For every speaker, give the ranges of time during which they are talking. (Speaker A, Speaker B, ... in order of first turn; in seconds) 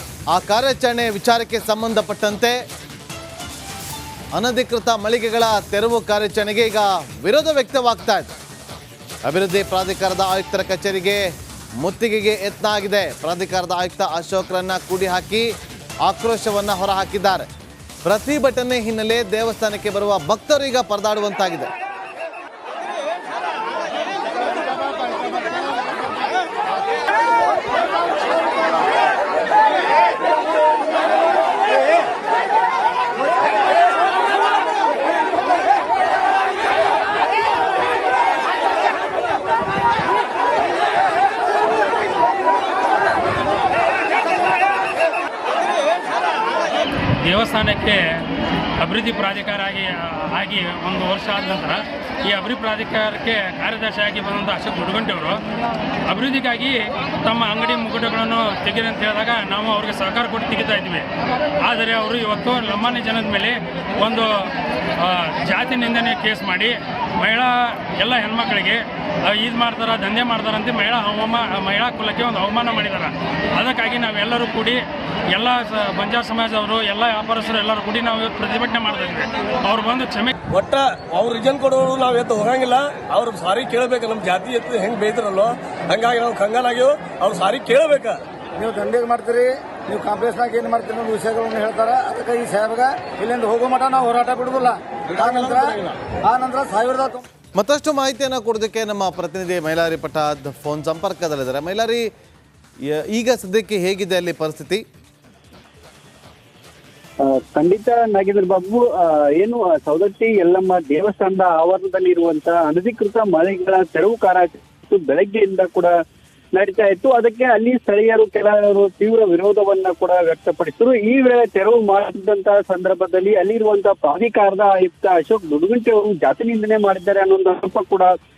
Speaker A: 0.3-2.6, 4.3-8.3, 9.2-11.2, 11.8-15.5, 16.1-17.5, 18.0-21.7, 97.6-102.1, 102.9-104.8
Speaker B: 47.2-48.2, 48.8-55.4, 56.1-80.3
Speaker C: 80.5-88.2, 95.2-95.8
Speaker D: 88.6-97.2
Speaker E: 107.2-115.9, 116.6-128.1